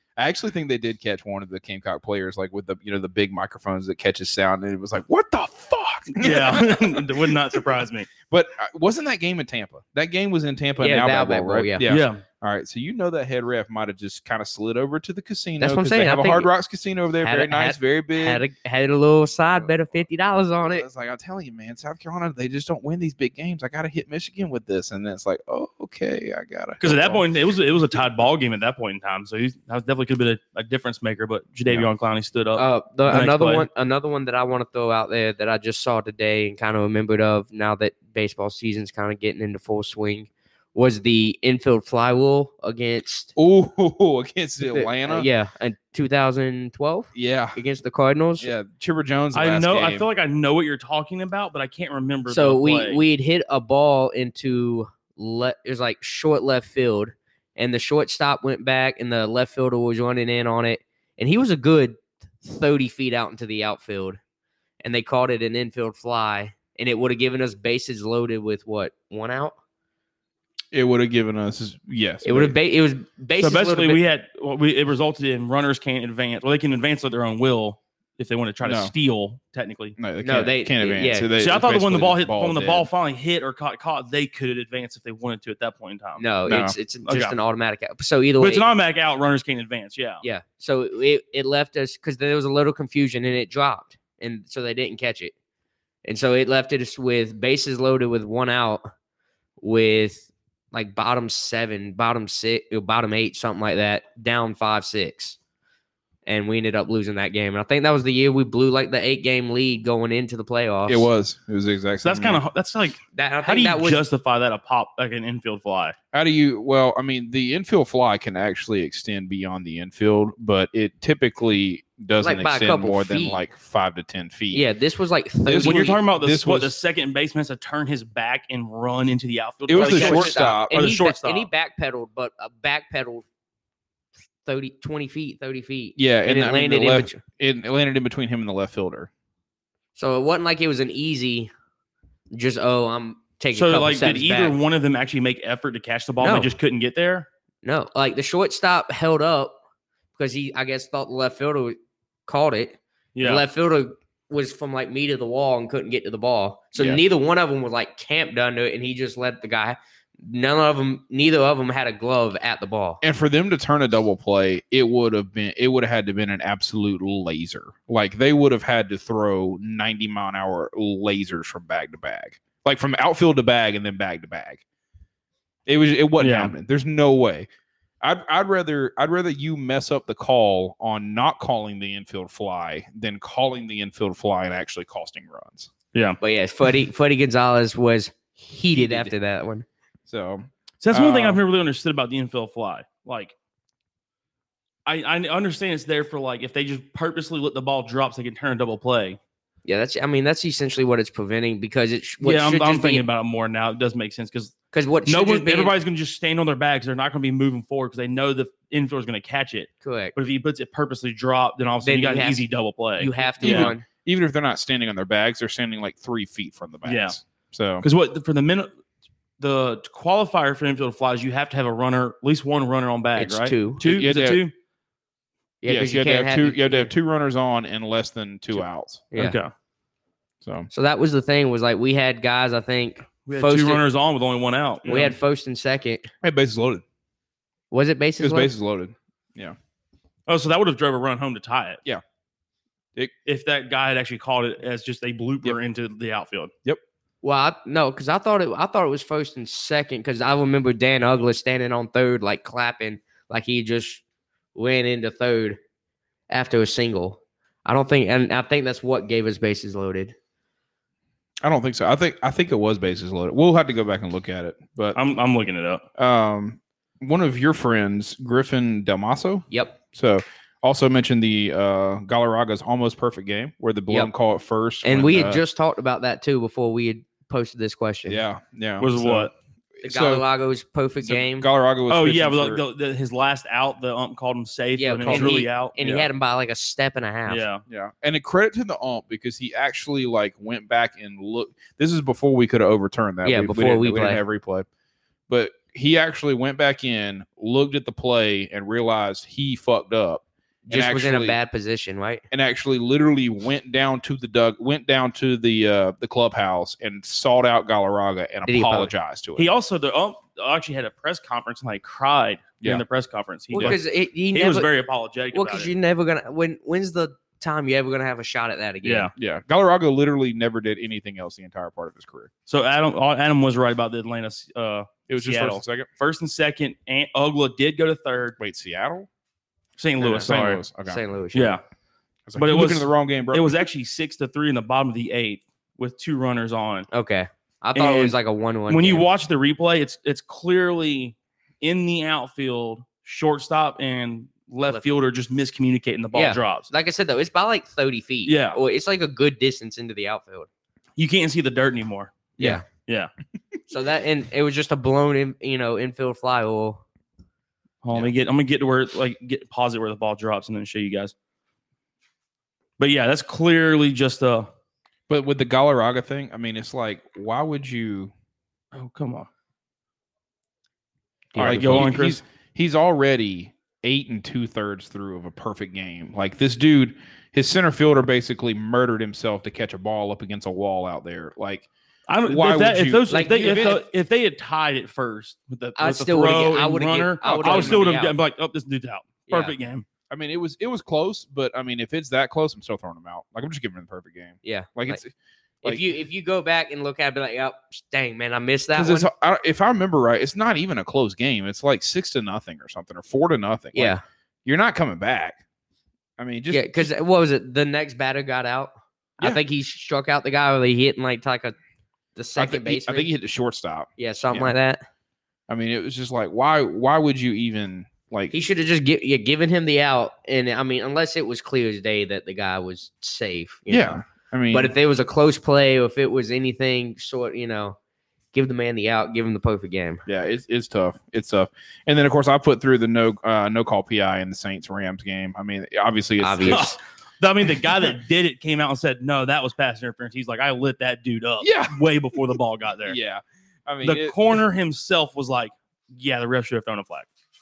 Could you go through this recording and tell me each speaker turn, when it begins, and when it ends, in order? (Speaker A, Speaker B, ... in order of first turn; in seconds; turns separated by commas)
Speaker A: 0.2-7.0, Speaker B: 6.2-8.1, Speaker A: 8.3-18.4, Speaker C: 10.8-11.8, Speaker B: 11.8-12.2, Speaker C: 15.6-16.5, Speaker C: 17.2-20.9, Speaker A: 20.7-27.2, Speaker B: 26.8-33.6, Speaker C: 32.5-43.3, Speaker A: 43.4-45.3, Speaker C: 44.6-48.5, Speaker A: 47.1-47.6, Speaker A: 48.4-50.0, Speaker B: 49.3-53.0, Speaker C: 52.3-64.2, Speaker C: 64.8-69.5, Speaker A: 70.7-72.6, Speaker C: 72.2-74.0, Speaker B: 73.4-80.0, Speaker A: 78.6-78.9, Speaker A: 80.0-82.9, Speaker C: 80.2-81.3, Speaker B: 81.4-86.2, Speaker C: 86.2-88.6, Speaker A: 86.5-86.7, Speaker B: 87.1-87.3, Speaker B: 88.4-90.2, Speaker C: 90.2-95.3, Speaker C: 96.0-98.8, Speaker C: 99.6-105.4, Speaker C: 106.2-111.1, Speaker A: 110.9-112.4, Speaker B: 112.0-116.0, Speaker C: 113.1-114.0, Speaker A: 116.1-124.6, Speaker C: 122.2-123.4, Speaker C: 124.5-126.0, Speaker A: 125.4-126.7, Speaker B: 125.6-131.5, Speaker A: 129.7-130.8, Speaker C: 129.8-133.2, Speaker C: 134.4-137.2, Speaker A: 135.9-139.1, Speaker C: 139.9-141.5, Speaker C: 142.3-144.6, Speaker B: 143.5-147.3, Speaker C: 146.2-146.5, Speaker C: 147.6-149.6, Speaker C: 150.1-163.0, Speaker B: 153.2-153.4, Speaker A: 163.0-174.6, Speaker A: 175.7-177.5, Speaker B: 176.2-176.5, Speaker A: 178.0-185.7, Speaker B: 185.9-186.2, Speaker C: 186.2-189.7, Speaker A: 188.7-189.1, Speaker A: 190.1-191.4, Speaker B: 190.8-193.3, Speaker B: 194.8-199.2, Speaker C: 199.6-203.0, Speaker B: 202.2-204.5, Speaker C: 204.7-205.7, Speaker B: 205.1-213.7, Speaker C: 209.8-210.1, Speaker C: 211.8-212.4, Speaker C: 213.0-213.8, Speaker A: 213.4-217.8, Speaker B: 216.8-217.2, Speaker B: 217.8-218.7, Speaker B: 219.4-224.5, Speaker C: 223.2-223.8, Speaker A: 223.8-224.4, Speaker C: 225.6-226.9, Speaker A: 225.7-229.0, Speaker C: 229.1-229.4, Speaker B: 229.1-229.5, Speaker A: 230.4-230.7, Speaker C: 230.7-233.8, Speaker B: 233.2-235.1, Speaker C: 234.8-236.1, Speaker A: 236.2-236.8, Speaker C: 237.7-238.5, Speaker A: 238.2-239.6, Speaker B: 240.3-241.8, Speaker B: 243.2-246.5, Speaker C: 247.2-254.0, Speaker C: 254.5-255.6, Speaker C: 256.3-260.1, Speaker A: 261.4-265.0, Speaker B: 264.9-265.8, Speaker A: 266.0-275.4, Speaker C: 269.5-269.8, Speaker C: 274.8-278.2, Speaker A: 278.1-280.2, Speaker B: 278.8-279.3, Speaker C: 279.8-281.4, Speaker A: 281.0-282.6, Speaker B: 281.9-286.1, Speaker C: 284.8-287.4, Speaker A: 285.1-285.3, Speaker B: 287.3-287.6, Speaker A: 287.7-294.7, Speaker C: 293.2-294.2, Speaker A: 295.3-301.4, Speaker C: 300.7-302.2, Speaker A: 302.3-309.5, Speaker C: 308.5-308.9, Speaker B: 309.4-313.8, Speaker C: 313.5-314.7, Speaker B: 314.3-315.7, Speaker C: 315.3-319.1, Speaker B: 318.8-319.1, Speaker A: 319.1-322.3, Speaker B: 322.5-328.4, Speaker A: 325.1-325.9, Speaker A: 328.4-329.1, Speaker B: 329.8-330.6, Speaker A: 330.0-331.0, Speaker C: 330.0-330.3, Speaker C: 330.8-331.6, Speaker B: 331.3-331.6, Speaker A: 332.3-333.6, Speaker B: 332.4-336.9, Speaker C: 336.9-339.1, Speaker B: 337.7-338.1, Speaker B: 338.7-346.7, Speaker C: 346.1-350.5, Speaker B: 348.2-348.6, Speaker B: 351.0-353.1, Speaker C: 352.4-352.6, Speaker C: 353.7-356.8, Speaker B: 357.8-361.1, Speaker B: 362.8-364.5, Speaker A: 365.1-368.1, Speaker B: 368.7-369.3, Speaker B: 371.3-372.2, Speaker A: 371.4-381.6, Speaker B: 382.1-389.8, Speaker A: 382.2-383.8, Speaker C: 383.1-383.8, Speaker C: 385.8-388.1, Speaker A: 387.2-387.8, Speaker C: 389.3-389.5, Speaker A: 390.1-395.9, Speaker C: 394.4-395.0, Speaker C: 395.6-399.1, Speaker A: 398.7-405.4, Speaker C: 403.7-404.0, Speaker A: 406.2-406.9, Speaker C: 406.5-411.6, Speaker C: 412.1-413.1, Speaker A: 412.4-414.5, Speaker C: 414.0-414.8, Speaker A: 415.5-418.3, Speaker C: 418.3-427.8, Speaker A: 423.7-424.7, Speaker C: 428.3-430.0, Speaker A: 430.1-436.7, Speaker C: 436.2-436.8, Speaker B: 436.5-443.0, Speaker A: 441.4-441.7, Speaker A: 442.9-444.4, Speaker B: 443.8-447.1